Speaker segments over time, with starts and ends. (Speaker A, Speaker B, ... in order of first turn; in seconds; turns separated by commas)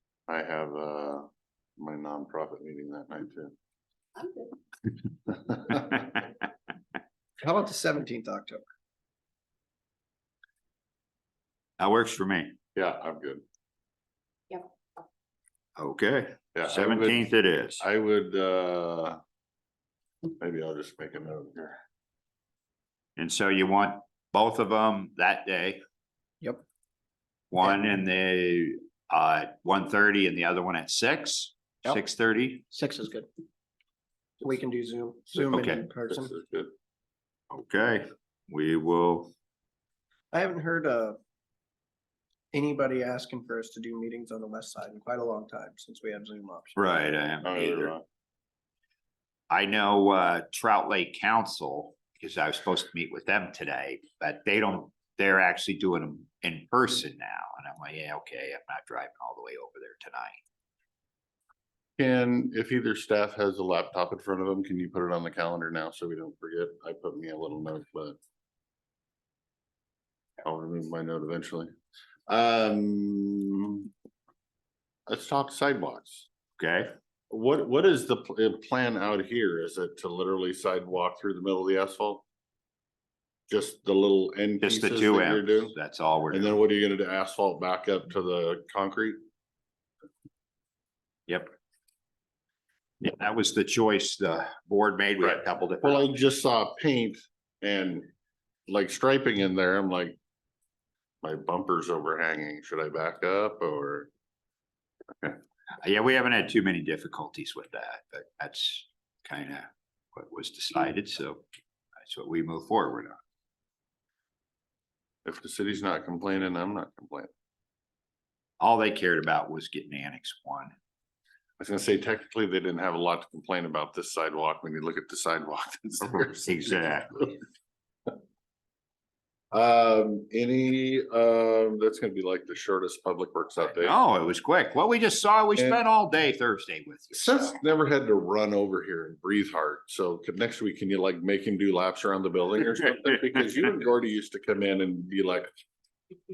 Speaker A: 0.3-1.3, Speaker A: 1.8-3.5, Speaker B: 7.4-8.6, Speaker C: 11.8-12.6, Speaker A: 12.7-13.4, Speaker C: 15.8-17.8, Speaker A: 16.5-17.2, Speaker A: 17.8-19.2, Speaker A: 20.4-21.8, Speaker C: 23.2-25.8, Speaker C: 27.5-32.6, Speaker B: 32.7-33.3, Speaker B: 34.4-36.3, Speaker C: 35.5-35.8, Speaker A: 36.1-36.7, Speaker C: 37.5-39.3, Speaker B: 40.3-41.2, Speaker B: 42.5-46.9, Speaker C: 46.8-47.9, Speaker A: 47.4-48.0, Speaker C: 49.5-60.4, Speaker A: 62.0-68.2, Speaker A: 70.4-71.7, Speaker A: 72.3-73.9, Speaker A: 75.1-76.3, Speaker C: 76.6-76.9, Speaker A: 77.3-82.2, Speaker A: 83.5-85.7, Speaker C: 84.6-86.6, Speaker A: 86.3-89.2, Speaker C: 93.0-96.0, Speaker A: 95.2-98.1, Speaker A: 98.7-100.2, Speaker A: 101.2-104.1, Speaker C: 105.8-111.4, Speaker C: 112.0-113.2, Speaker A: 115.2-117.3, Speaker C: 118.6-120.7, Speaker A: 121.6-126.7, Speaker C: 126.2-127.3, Speaker A: 129.5-133.9, Speaker C: 133.8-137.5, Speaker A: 137.1-145.5